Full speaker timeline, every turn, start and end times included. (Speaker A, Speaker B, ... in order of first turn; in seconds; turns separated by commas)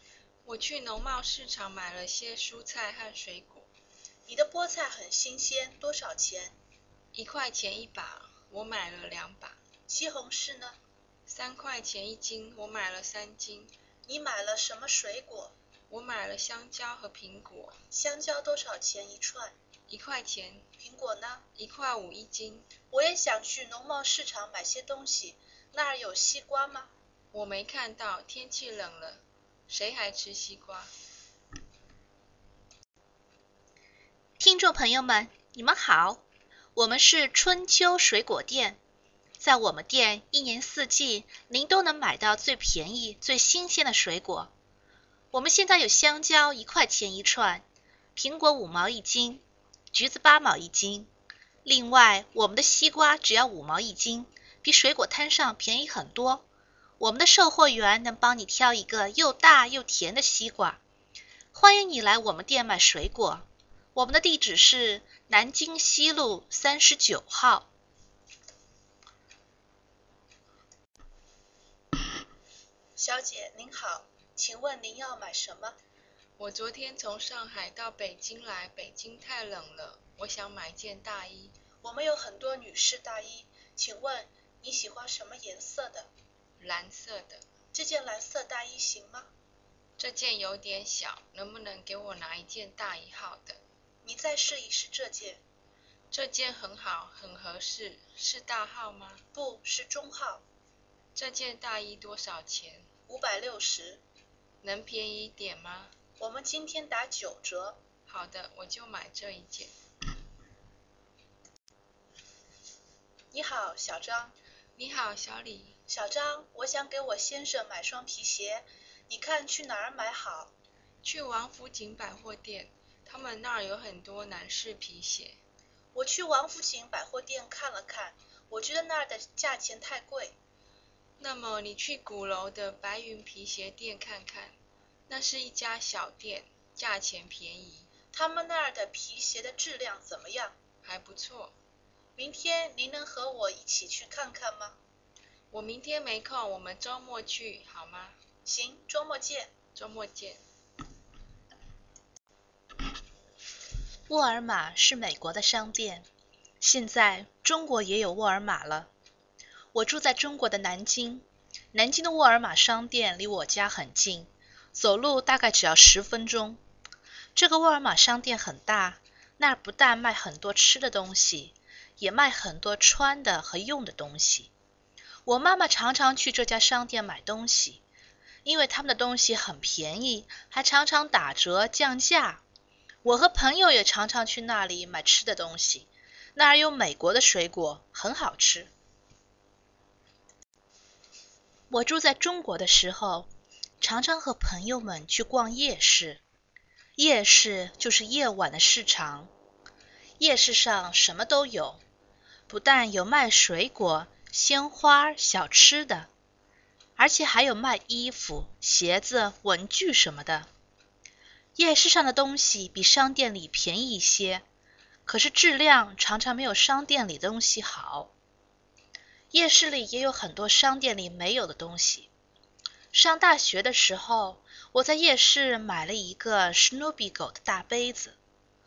Speaker A: 0.4-3.7, Speaker B: 4.3-6.6, Speaker A: 7.1-9.6, Speaker B: 9.9-10.8, Speaker A: 11.3-13.7, Speaker B: 14.1-15.5, Speaker A: 15.9-17.8, Speaker B: 17.9-19.5, Speaker A: 19.9-20.7, Speaker B: 20.8-21.4, Speaker A: 21.5-22.7, Speaker B: 22.9-26.9, Speaker A: 27.3-30.9, Speaker C: 34.4-36.2, Speaker C: 36.7-38.8, Speaker C: 39.4-44.5, Speaker C: 45.3-51.1, Speaker C: 51.6-56.5, Speaker C: 57.0-60.8, Speaker C: 61.5-67.7, Speaker B: 73.0-75.8, Speaker A: 76.4-81.5, Speaker B: 81.8-86.1, Speaker A: 86.6-87.4, Speaker B: 87.7-89.3, Speaker A: 90.0-93.6, Speaker B: 94.0-95.4, Speaker A: 96.1-99.2, Speaker B: 99.3-100.4, Speaker A: 101.1-102.9, Speaker B: 103.1-104.0, Speaker A: 104.6-105.9, Speaker B: 106.2-107.8, Speaker A: 108.0-109.7, Speaker B: 113.3-114.3, Speaker A: 114.8-115.8, Speaker B: 115.9-120.5, Speaker A: 121.0-125.4, Speaker B: 125.9-130.4, Speaker A: 131.2-134.6, Speaker A: 135.1-137.9, Speaker B: 138.1-140.6, Speaker A: 140.8-141.6, Speaker B: 142.2-144.8, Speaker A: 145.5-148.2, Speaker B: 148.4-149.5, Speaker A: 149.7-150.4, Speaker C: 154.1-156.1, Speaker C: 156.6-158.9, Speaker C: 159.7-166.6, Speaker C: 167.3-174.5, Speaker C: 175.2-177.8, Speaker C: 178.4-182.4, Speaker C: 183.0-188.7, Speaker C: 191.7-193.3, Speaker C: 193.8-196.2, Speaker C: 197.0-199.3, Speaker C: 200.2-201.8, Speaker C: 202.5-206.1, Speaker C: 207.0-210.5, Speaker C: 211.6-214.4, Speaker C: 215.1-218.1, Speaker C: 219.3-222.1, Speaker C: 222.9-228.2